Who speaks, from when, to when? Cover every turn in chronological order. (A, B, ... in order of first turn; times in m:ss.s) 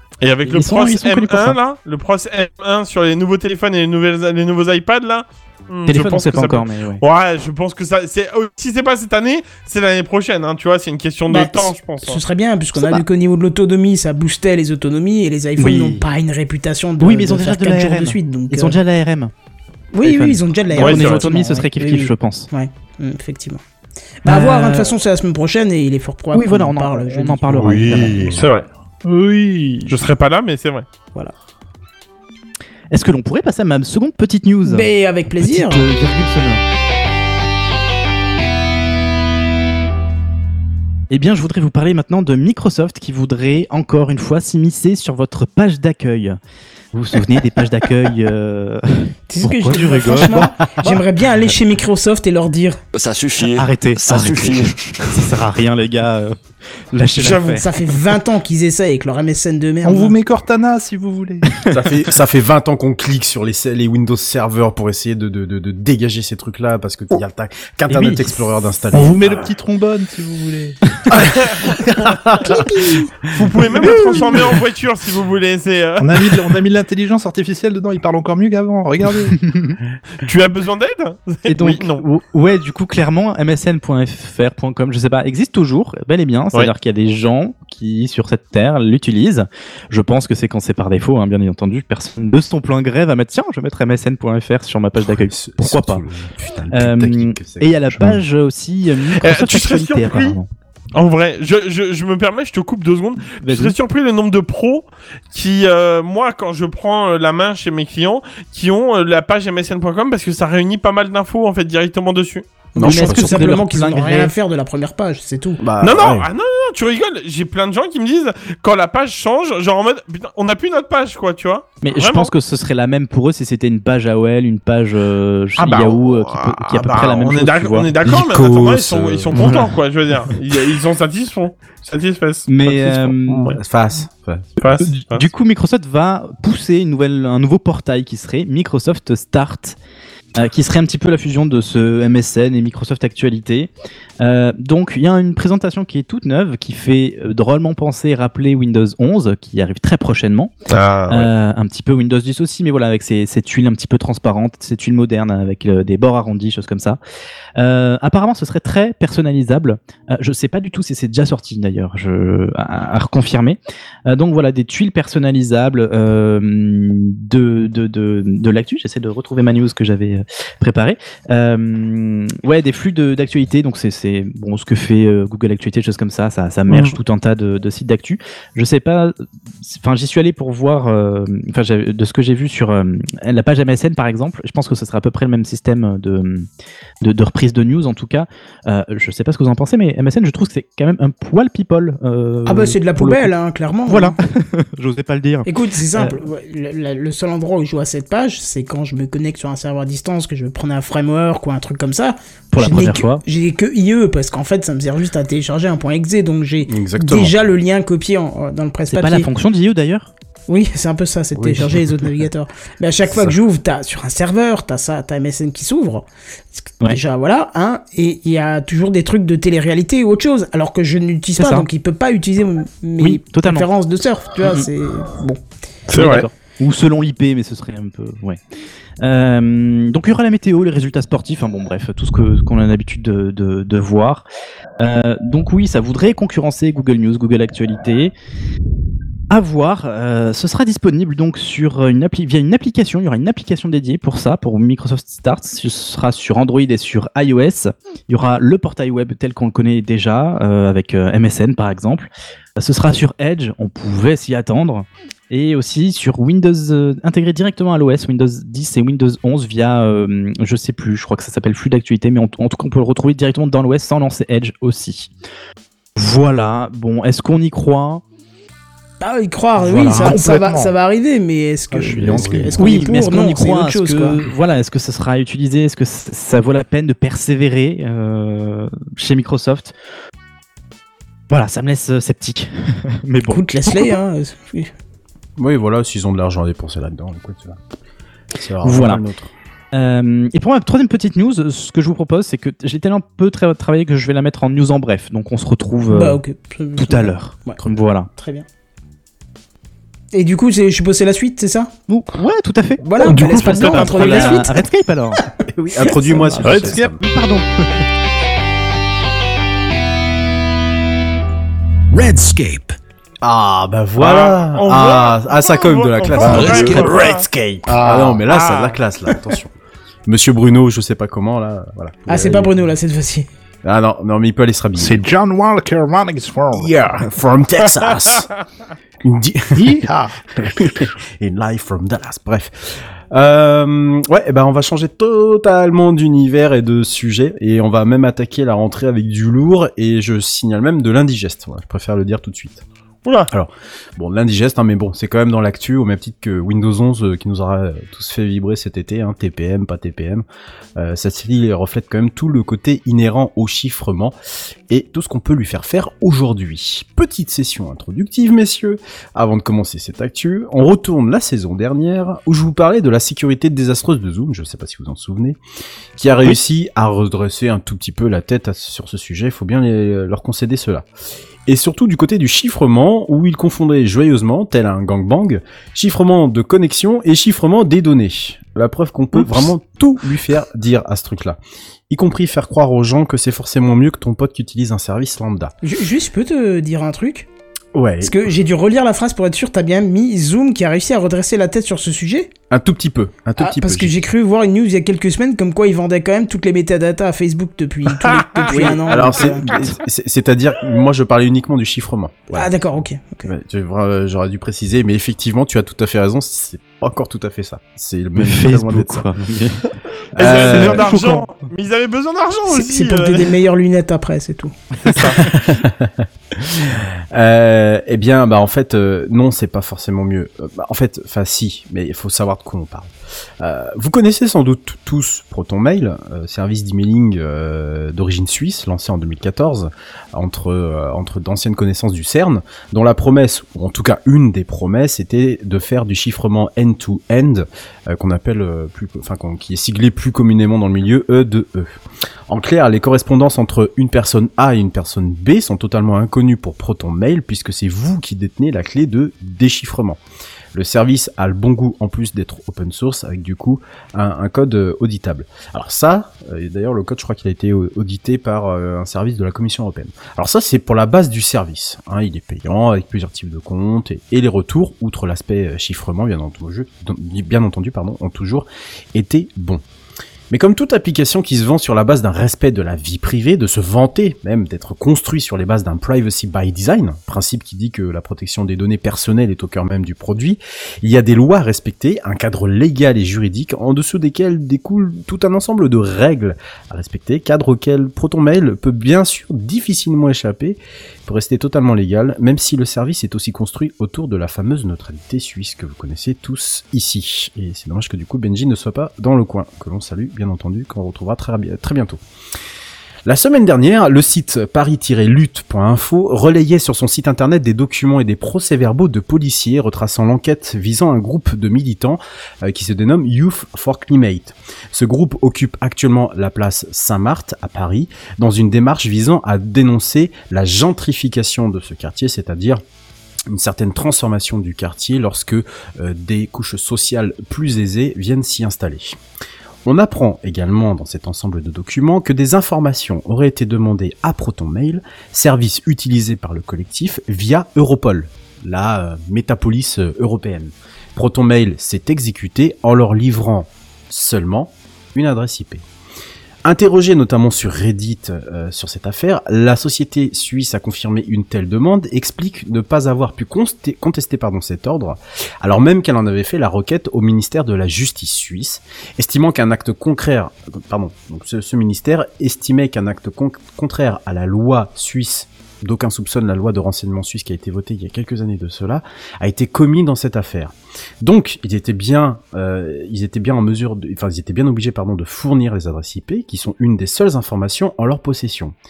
0:00.2-0:12.2 A
0:00.4-0:01.6 B
0:05.9-0:07.0 B
0:11.3-0:18.8 C
0:12.7-0:13.0 B
0:15.6-0:16.0 B
0:17.0-0:19.3 B
0:19.9-0:23.6 C
0:20.0-0:22.5 B
0:20.8-0:21.3 A
0:24.2-0:28.1 C
0:24.2-0:24.9 B
0:26.3-0:28.4 B
0:27.6-0:28.5 D
0:28.3-0:28.7 A
0:29.0-0:30.0 D
0:29.9-0:30.9 A
0:32.9-0:34.9 B
0:34.6-0:35.8 C
0:35.4-0:36.6 B
0:41.1-0:46.4 B
0:46.9-0:51.0 B
0:49.3-0:52.8 C
0:53.5-0:56.4 B
0:56.9-0:57.6 B
0:57.2-0:57.6 A
0:57.6-1:00.1 C
0:59.8-1:01.6 D
1:01.6-1:09.4 E
1:07.9-1:08.4 B
1:08.9-1:13.0 D
1:12.2-1:12.5 E
1:13.3-1:16.1 A
1:13.8-1:14.6 D
1:16.0-1:19.5 D
1:20.2-1:22.0 A
1:21.5-1:36.0 B
1:35.3-1:38.2 E
1:36.7-1:40.5 B
1:39.2-1:40.4 A
1:40.9-1:52.5 A
1:43.4-1:43.7 B
1:52.7-1:55.6 C
1:52.8-1:53.6 E
1:52.8-1:54.3 B
1:55.6-1:56.3 E
1:55.8-2:02.3 A
2:01.8-2:07.9 B
2:05.6-2:13.6 A
2:08.0-2:09.6 E
2:09.4-2:09.6 B
2:12.5-2:13.6 B
2:13.4-2:14.6 E
2:14.6-2:15.3 A
2:14.8-2:19.8 B
2:20.4-2:30.5 B
2:30.7-2:31.3 A
2:31.1-2:37.0 B
2:37.6-3:06.5 B
2:56.7-2:57.0 A
3:07.0-3:13.3 B
3:12.4-3:14.2 C
3:13.9-3:16.2 B
3:15.4-3:29.3 C
3:22.5-3:23.2 B
3:26.6-3:27.4 E
3:28.9-3:30.1 B
3:30.5-3:45.4 C
3:31.4-3:32.0 E
3:41.4-3:41.7 B
3:43.0-3:43.7 B
3:44.4-3:44.7 B
3:45.9-3:46.2 A
3:45.9-3:48.4 B
3:49.0-3:54.2 B
3:54.8-3:58.1 B
3:59.3-4:25.1 B
4:26.0-4:28.0 B
4:29.0-4:34.2 C
4:29.6-4:30.7 D
4:29.7-4:30.2 B
4:31.7-4:32.9 D
4:32.6-4:39.7 B
4:41.3-4:44.0 B
4:43.3-4:44.7 C
4:45.4-4:47.6 E
4:48.4-4:49.3 E
4:48.6-4:49.0 B
4:49.7-4:56.2 B
4:55.9-4:57.6 C
4:56.8-4:58.1 B
4:58.2-4:58.4 C
5:00.1-5:01.7 C
5:01.9-5:05.2 B
5:02.8-5:04.7 C
5:03.1-5:04.1 A
5:05.5-5:07.0 E
5:05.8-5:06.6 C
5:06.4-5:06.8 D
5:06.5-5:07.9 B
5:11.9-5:12.8 F
5:13.2-5:19.5 E
5:14.0-5:17.2 A
5:16.1-5:17.1 D
5:16.3-5:17.4 F
5:17.6-5:18.2 D
5:18.3-5:18.8 A
5:20.1-5:22.6 E
5:22.1-5:23.3 C
5:23.6-5:25.0 E
5:24.8-5:26.8 D
5:26.5-5:28.3 E
5:29.0-5:32.5 E
5:29.5-5:30.9 D
5:33.1-5:42.6 E
5:43.3-5:50.2 E
5:50.8-5:54.1 E
5:54.7-6:05.4 E
6:06.0-6:10.9 E
6:11.4-6:25.5 E
6:25.6-6:27.3 C
6:27.7-6:28.2 E
6:28.0-6:32.3 C
6:32.5-6:34.0 E
6:33.4-6:39.5 C
6:38.0-6:39.3 A
6:38.5-6:38.8 B
6:38.8-6:42.5 E
6:42.3-6:43.3 C
6:43.2-6:49.2 E
6:48.2-6:49.6 B
6:50.2-6:50.9 E
6:50.2-6:53.3 A
6:50.2-6:51.3 B
6:52.5-6:54.5 C
6:54.8-6:55.3 B
6:55.2-7:21.7 E
7:22.3-7:30.0 E
7:30.5-7:49.6 E
7:50.3-8:22.0 E
8:23.0-8:42.6 E
8:43.3-8:49.0 E
8:49.6-9:05.6 E
9:06.4-9:38.6 E